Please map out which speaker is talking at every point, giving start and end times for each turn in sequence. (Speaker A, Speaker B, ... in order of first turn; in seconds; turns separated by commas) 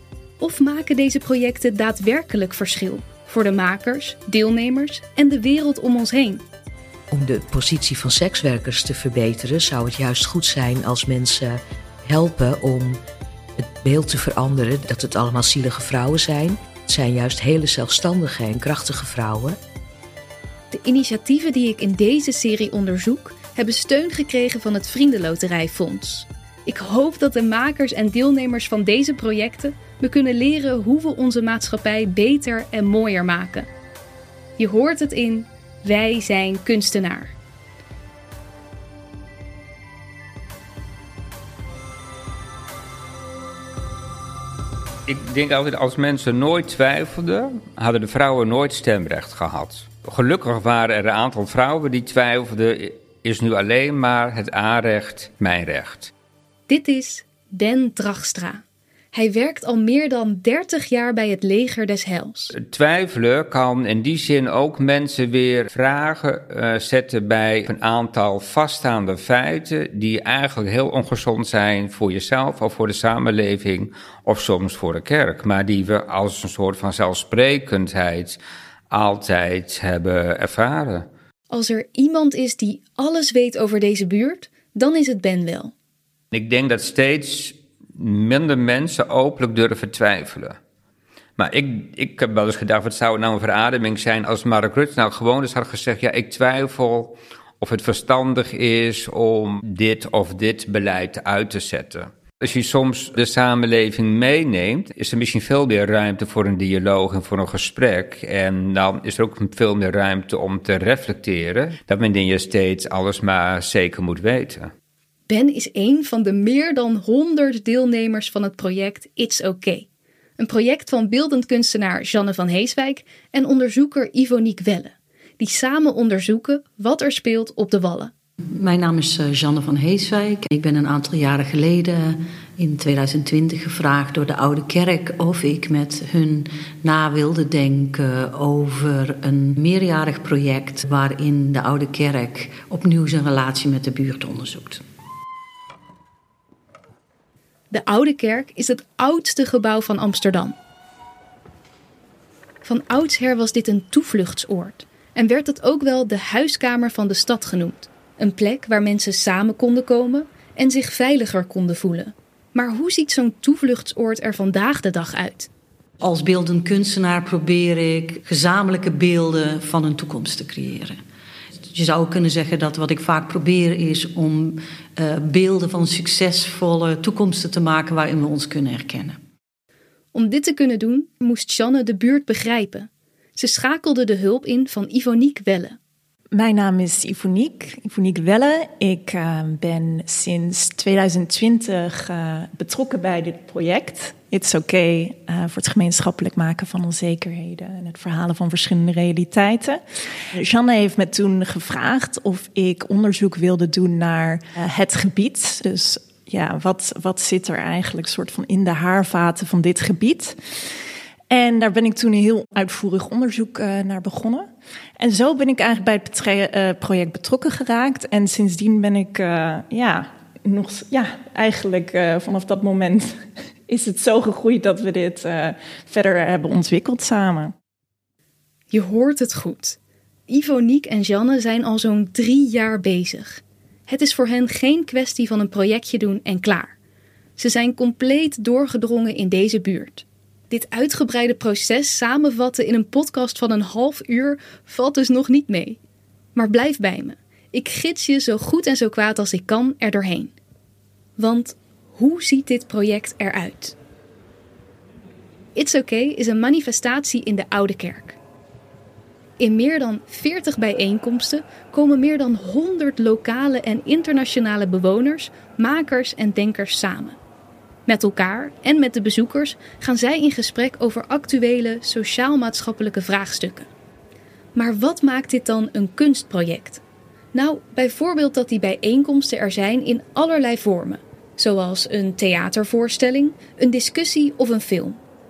Speaker A: 0.4-6.4, Speaker B: 7.1-13.0, Speaker B: 13.6-19.6, Speaker A: 20.7-33.7, Speaker A: 34.6-37.3, Speaker C: 45.1-56.1, Speaker A: 56.7-62.5, Speaker C: 62.5-78.4, Speaker C: 78.9-81.1, Speaker A: 81.5-85.7, Speaker C: 86.3-90.6, Speaker C: 91.4-114.7, Speaker A: 115.3-119.9, Speaker A: 120.4-128.1, Speaker D: 128.5-144.8, Speaker A: 147.7-150.6, Speaker A: 152.6-165.5, Speaker D: 166.0-171.0, Speaker D: 171.7-179.2, Speaker A: 180.1-185.8, Speaker E: 186.3-199.8, Speaker E: 200.3-210.6, Speaker E: 211.3-227.5, Speaker A: 228.7-229.8, Speaker A: 230.3-236.7, Speaker A: 237.4-245.8, Speaker A: 246.3-250.3, Speaker A: 251.2-253.7, Speaker A: 255.5-258.2, Speaker A: 259.4-267.2, Speaker A: 267.9-273.7, Speaker A: 274.5-276.8, Speaker A: 277.3-285.0